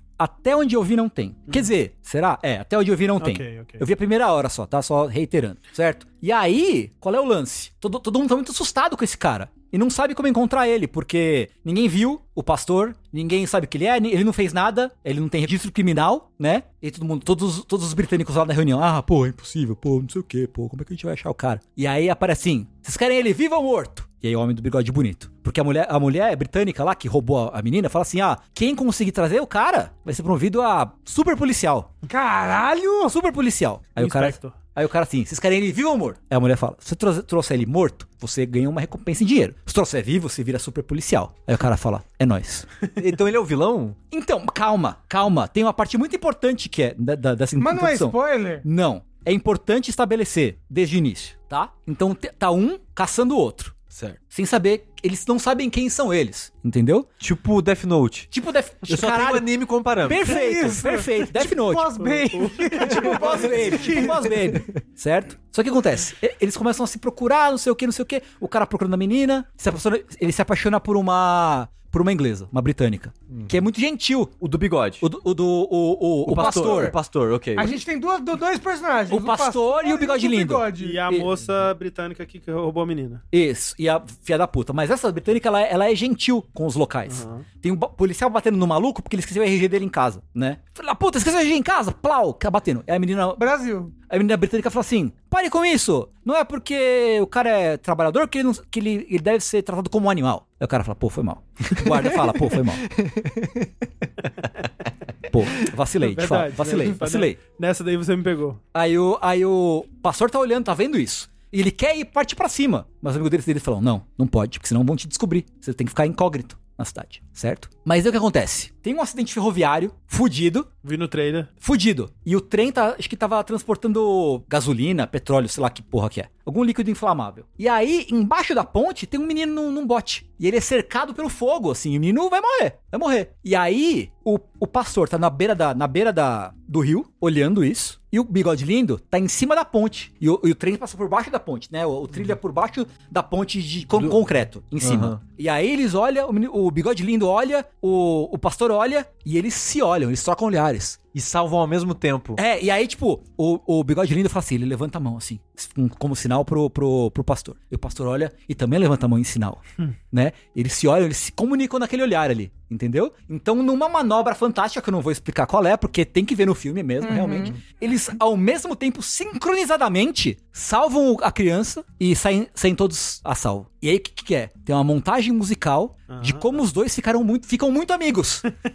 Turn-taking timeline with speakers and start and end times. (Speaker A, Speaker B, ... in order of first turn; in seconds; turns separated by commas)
Speaker A: 0.2-31.9, Speaker B: 3.2-3.8, Speaker C: 32.0-33.1, Speaker A: 33.1-42.7, Speaker B: 34.0-34.5, Speaker D: 43.0-44.0, Speaker A: 44.1-53.7, Speaker C: 47.6-48.6, Speaker D: 53.9-54.2, Speaker A: 54.3-57.1, Speaker D: 57.2-58.3, Speaker A: 58.3-59.5, Speaker D: 58.9-60.2, Speaker A: 60.0-62.0, Speaker C: 60.1-64.3, Speaker B: 62.0-63.6, Speaker A: 62.8-74.4, Speaker D: 74.4-75.0, Speaker A: 75.0-77.0, Speaker D: 76.2-77.8, Speaker B: 76.3-76.9, Speaker C: 77.5-81.0, Speaker A: 79.1-81.3, Speaker B: 80.8-83.2, Speaker A: 83.3-93.4, Speaker B: 87.1-87.5, Speaker C: 93.4-93.9, Speaker A: 94.1-102.8, Speaker D: 102.9-103.5, Speaker A: 105.3-107.4, Speaker B: 106.0-108.6, Speaker A: 108.7-120.7, Speaker B: 120.8-121.5, Speaker A: 121.6-151.0, Speaker D: 144.8-145.2, Speaker D: 151.1-152.4, Speaker A: 152.3-178.4, Speaker C: 167.0-167.5, Speaker B: 176.1-176.5